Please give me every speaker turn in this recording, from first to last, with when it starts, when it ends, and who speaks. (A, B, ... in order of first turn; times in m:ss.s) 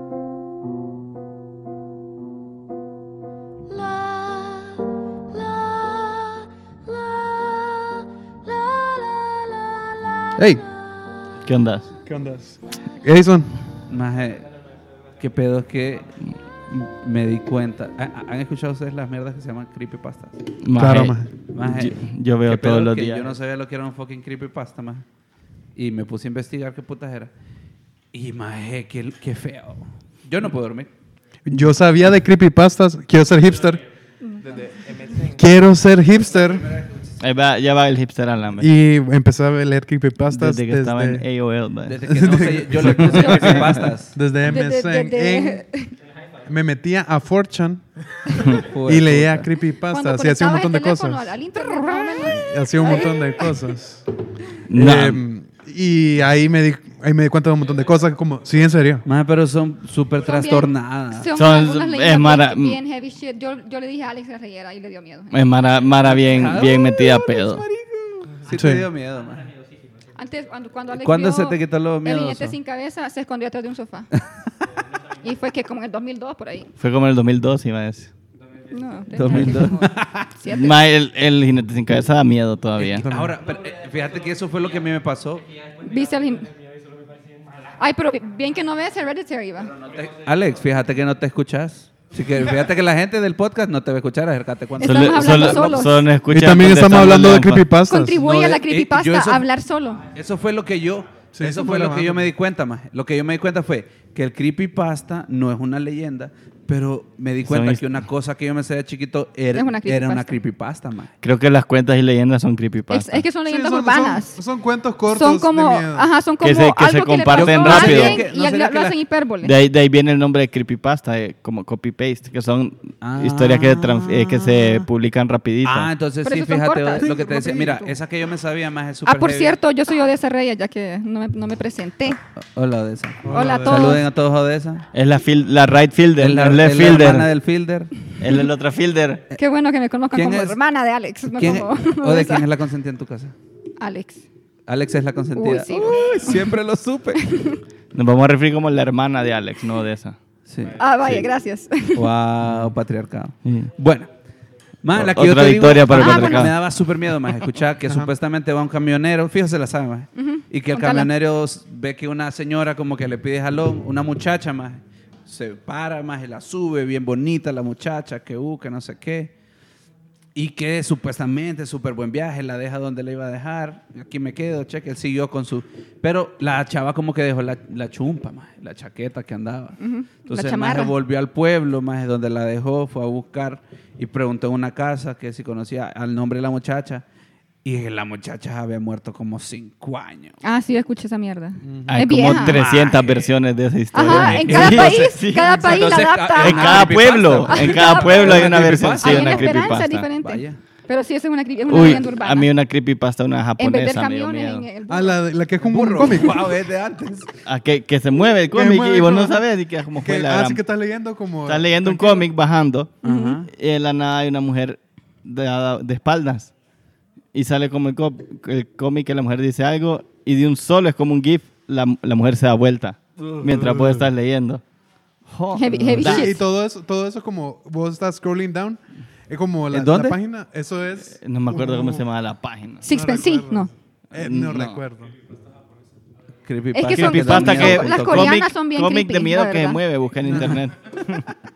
0:04.2-0:04.7 A
0:05.8-0:06.2 A
0:10.3-0:10.6 B
0:11.4-0:11.9 A
0:12.0-0:13.5 B
0:13.9-0:14.5 C
0:15.2-0:16.1 C
0:16.7-0:20.4 C
0:20.6-0:23.3 A
0:20.8-0:21.3 B
0:21.5-0:25.0 C
0:25.7-0:27.3 C
0:28.1-0:30.9 C
0:31.4-0:33.8 B
0:34.4-0:35.1 C
0:35.2-0:36.7 B
0:36.3-0:37.2 C
0:37.2-0:38.7 A
0:38.6-0:41.2 B
0:40.3-0:42.0 A
0:41.9-0:44.2 C
0:42.0-0:45.6 B
0:43.2-0:43.5 A
0:44.4-0:45.9 D
0:46.5-0:51.3 B
0:48.4-0:49.5 C
0:49.9-0:53.5 D
0:51.9-0:54.0 B
0:54.7-0:55.2 A
0:54.7-0:59.0 B
0:59.0-1:01.3 C
1:00.2-1:05.4 D
1:01.3-1:02.8 A
1:05.3-1:07.6 A
1:06.0-1:09.5 C
1:08.5-1:08.8 B
1:10.1-1:14.1 D
1:10.9-1:12.6 C
1:15.2-1:16.7 D
1:16.8-1:18.1 A
1:18.7-1:19.8 D
1:19.1-1:20.3 C
1:20.4-1:20.8 D
1:20.5-1:23.0 A
1:22.8-1:25.4 C
1:23.0-1:23.3 B
1:25.8-1:26.5 D
1:27.8-1:29.7 D
1:29.8-1:36.0 C
1:34.8-1:36.0 D
1:34.8-1:37.6 A
1:36.3-1:38.2 B
1:37.9-1:40.0 D
1:38.2-1:39.5 C
1:40.1-1:51.1 C
1:41.3-1:42.3 B
1:47.4-1:47.8 A
1:49.5-1:50.4 D
1:51.2-1:53.2 A
1:52.9-1:54.4 D
1:53.4-1:56.1 B
1:55.1-1:59.6 D
1:56.4-1:58.2 A
1:57.3-1:59.0 C
1:59.4-2:05.9 A
2:03.0-2:04.8 C
2:05.6-2:09.5 C
2:06.2-2:07.1 D
2:07.0-2:07.9 B
2:09.0-2:12.2 D
2:12.4-2:14.8 C
2:13.2-2:14.0 B
2:13.3-2:14.0 D
2:14.9-2:17.2 A
2:16.2-2:18.0 C
2:18.2-2:19.2 A
2:19.3-2:22.4 D
2:20.1-2:20.6 C
2:21.3-2:23.3 C
2:23.8-2:24.2 D
2:24.7-2:27.2 C
2:25.3-2:26.4 D
2:27.2-2:27.6 D
2:27.9-2:30.2 A
2:30.5-2:31.2 C
2:30.8-2:32.1 D
2:31.9-2:34.1 C
2:34.8-2:49.3 C
2:34.9-2:36.5 A
2:35.9-2:36.5 D
2:40.1-2:41.1 D
2:50.3-3:07.0 C
2:59.8-3:00.9 D
3:07.6-3:10.4 C
3:10.4-3:12.6 D
3:11.6-3:12.0 B
3:11.9-3:15.6 A
3:12.3-3:13.3 C
3:13.9-3:22.5 D
3:14.0-3:20.6 C
3:16.4-3:20.1 A
3:21.7-3:24.6 A
3:23.6-3:25.2 D
3:24.9-3:26.5 B
3:25.6-3:27.3 C
3:27.4-3:30.6 A
3:28.5-3:29.4 B
3:30.0-3:32.3 B
3:31.5-3:32.9 A
3:33.0-3:33.5 C
3:33.0-3:33.4 D
3:33.5-3:36.5 A
3:37.3-3:44.6 A
3:43.2-3:43.5 C
3:43.5-3:44.1 B
3:45.3-3:46.3 A
3:45.5-3:46.4 D
3:45.8-3:52.0 B
3:49.7-3:50.2 C
3:51.2-3:52.8 A
3:52.8-3:53.7 D
3:52.8-3:55.1 B
3:54.1-3:54.8 A
3:56.4-3:58.4 C
3:56.7-3:59.8 D
3:56.9-4:01.3 A
4:00.2-4:00.6 B